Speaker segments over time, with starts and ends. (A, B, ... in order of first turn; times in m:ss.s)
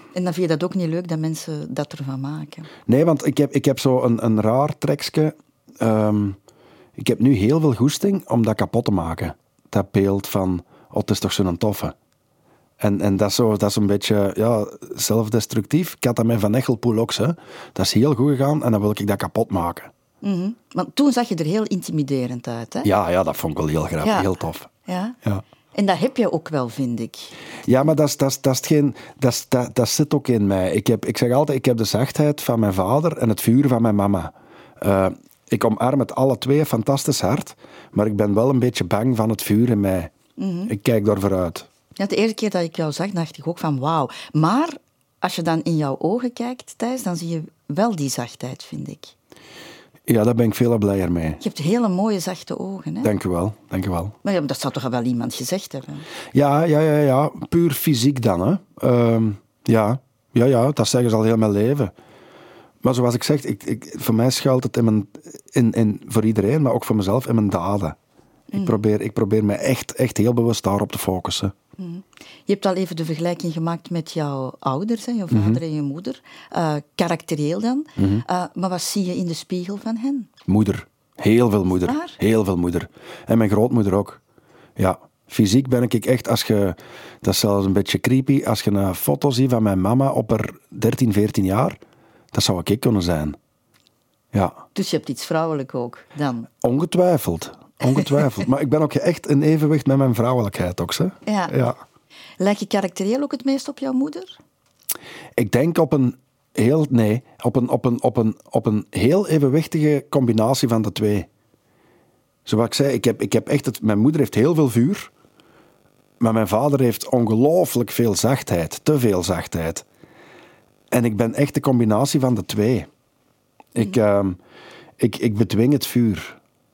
0:00.1-0:02.7 A
0:02.9-0:06.4 B
0:07.0-0:11.9 B
0:12.8-0:19.9 B
0:20.2-0:22.9 A
0:22.8-0:24.7 B
0:24.0-0:24.3 A
0:24.8-0:25.2 A
0:25.7-0:27.3 A
0:27.6-0:40.1 B
0:40.4-0:40.7 A
0:40.7-0:41.7 B
0:42.0-0:49.1 A
0:50.1-0:51.4 B
0:51.4-0:53.1 A
0:53.0-0:54.2 B
0:54.2-0:56.0 A
0:56.3-1:01.9 B
1:02.8-1:08.0 B
1:08.5-1:11.5 B
1:08.5-1:08.8 A
1:11.8-1:20.3 A
1:15.3-1:15.6 B
1:18.0-1:18.2 B
1:20.5-1:24.2 B
1:21.8-1:22.2 A
1:24.8-1:31.8 B
1:32.3-1:33.4 B
1:34.3-1:34.6 B
1:34.7-1:36.5 A
1:36.6-1:41.8 B
1:41.2-1:41.6 A
1:42.4-1:44.4 A
1:45.4-1:51.3 B
1:52.4-1:55.1 B
1:56.2-1:59.8 B
2:00.9-2:02.9 B
2:03.7-2:04.4 B
2:05.0-2:06.4 B